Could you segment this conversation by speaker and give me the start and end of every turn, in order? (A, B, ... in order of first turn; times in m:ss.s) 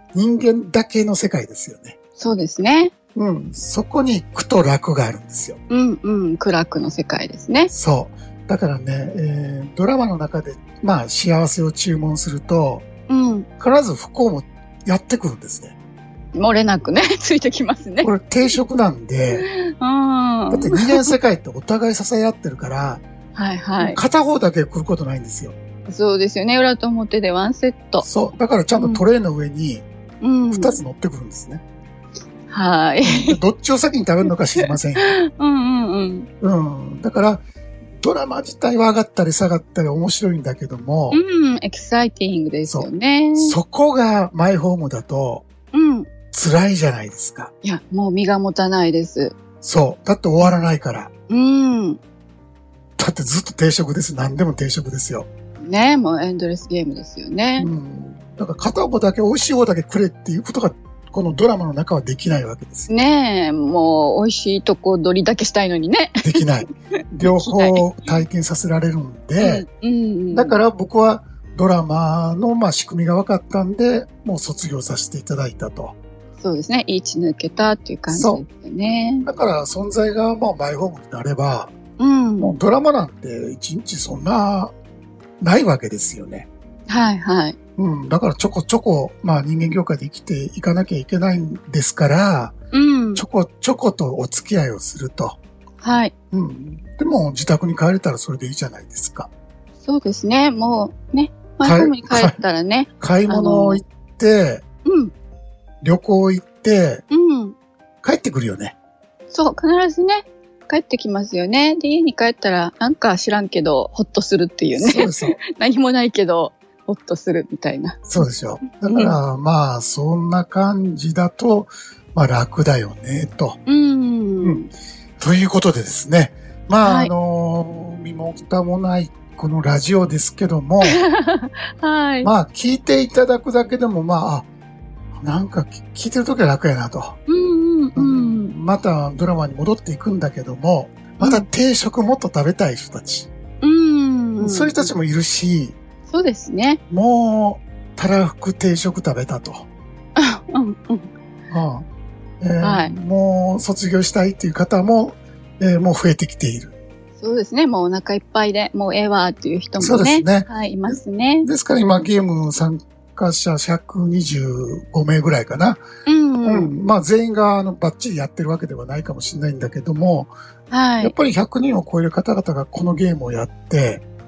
0:00.1-0:02.0 A
0:02.2-0:02.9 B
0:03.1-0:05.6 A
0:05.7-0:07.7 B
0:07.7-0:12.9 A
0:13.1-0:13.5 B
0:13.6-0:15.8 A
0:16.4-0:18.1 B
0:18.0-0:19.5 A
0:19.3-0:21.2 B
0:20.5-0:23.0 A
0:23.3-0:24.0 B
0:23.8-0:25.5 A
0:25.9-0:28.1 B
0:28.0-0:29.9 A
0:28.7-0:29.0 B
0:30.2-0:30.8 B
0:30.5-0:31.6 A
0:32.5-0:33.4 B
0:33.0-0:35.2 A
0:34.6-0:36.3 B
0:36.4-0:37.4 A
0:38.0-0:41.2 A
0:41.1-0:43.6 B
0:42.7-0:45.5 A
0:45.7-0:46.1 B
0:46.3-0:47.5 A
0:47.6-0:49.4 B
0:49.6-0:51.1 A
0:51.3-0:52.0 B
0:53.0-0:55.3 A
0:55.6-0:57.7 B
0:57.6-1:02.9 A
1:02.9-1:06.4 B
1:06.2-1:09.6 A
1:07.2-1:07.9 B
1:09.4-1:10.6 B
1:10.3-1:16.0 A
1:16.4-1:19.3 B
1:18.1-1:18.4 A
1:19.2-1:21.7 A
1:22.0-1:22.6 B
1:22.4-1:24.7 A
1:25.4-1:26.5 A
1:26.9-1:27.6 B
1:27.8-1:32.6 A
1:32.7-1:33.2 B
1:33.2-1:35.4 A
1:35.8-1:36.1 B
1:36.3-1:39.3 A
1:39.8-1:43.8 B
1:41.6-1:42.4 A
1:43.0-1:44.6 A
1:44.8-1:45.1 B
1:45.8-1:47.0 A
1:47.1-1:47.6 B
1:48.0-1:48.8 A
1:49.3-1:58.3 B
1:54.7-1:55.4 A
1:58.0-2:03.6 A
1:58.8-1:59.2 B
2:03.6-2:04.7 B
2:04.4-2:04.6 A
2:05.2-2:11.0 A
2:06.8-2:07.1 B
2:10.8-2:12.3 B
2:12.2-2:14.5 A
2:15.2-2:17.2 A
2:17.3-2:18.5 B
2:17.9-2:23.3 A
2:21.2-2:21.5 B
2:23.6-2:24.9 B
2:24.4-2:25.8 A
2:26.1-2:26.8 B
2:26.9-2:29.7 A
2:30.2-2:31.1 B
2:31.5-2:31.9 A
2:32.4-2:36.8 A
2:32.6-2:32.9 B
2:37.2-2:41.5 B
2:39.8-2:45.8 A
2:46.0-2:46.7 B
2:46.4-2:50.3 A
2:50.7-2:51.1 B
2:51.0-2:54.0 A